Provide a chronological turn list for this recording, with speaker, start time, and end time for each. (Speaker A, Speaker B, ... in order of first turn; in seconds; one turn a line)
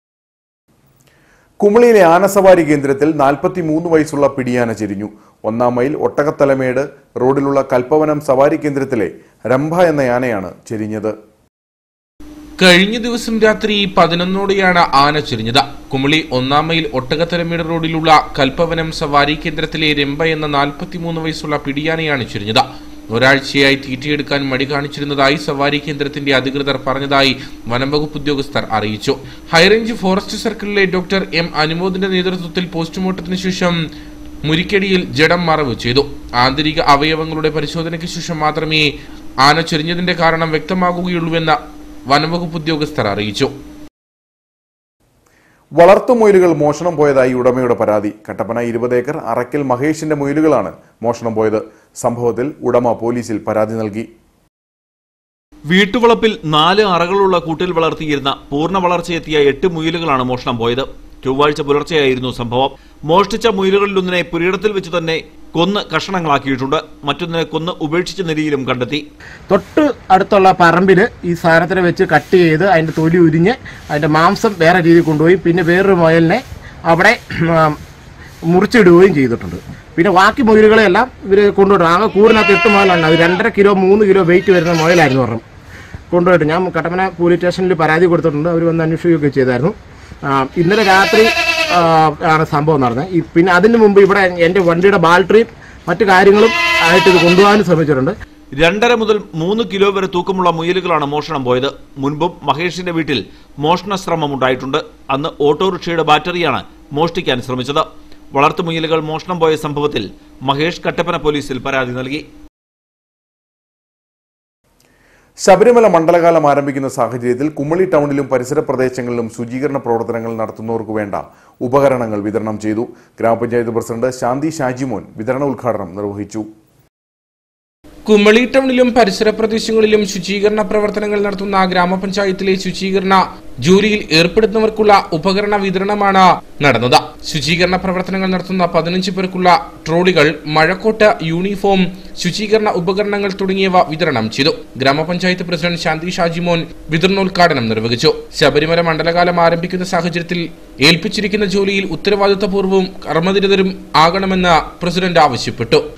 Speaker A: 1.6-11.1
Speaker B: 12.6-33.8
Speaker B: 34.5-38.9
Speaker B: 39.4-41.6
Speaker B: 42.1-43.5
Speaker A: 45.8-54.1
Speaker C: 55.7-69.0
Speaker D: 69.5-77.8
Speaker D: 78.5-85.4
Speaker D: 86.1-89.7
Speaker D: 90.3-98.1
Speaker C: 98.6-112.2
Speaker A: 115.4-126.5
Speaker B: 128.1-155.8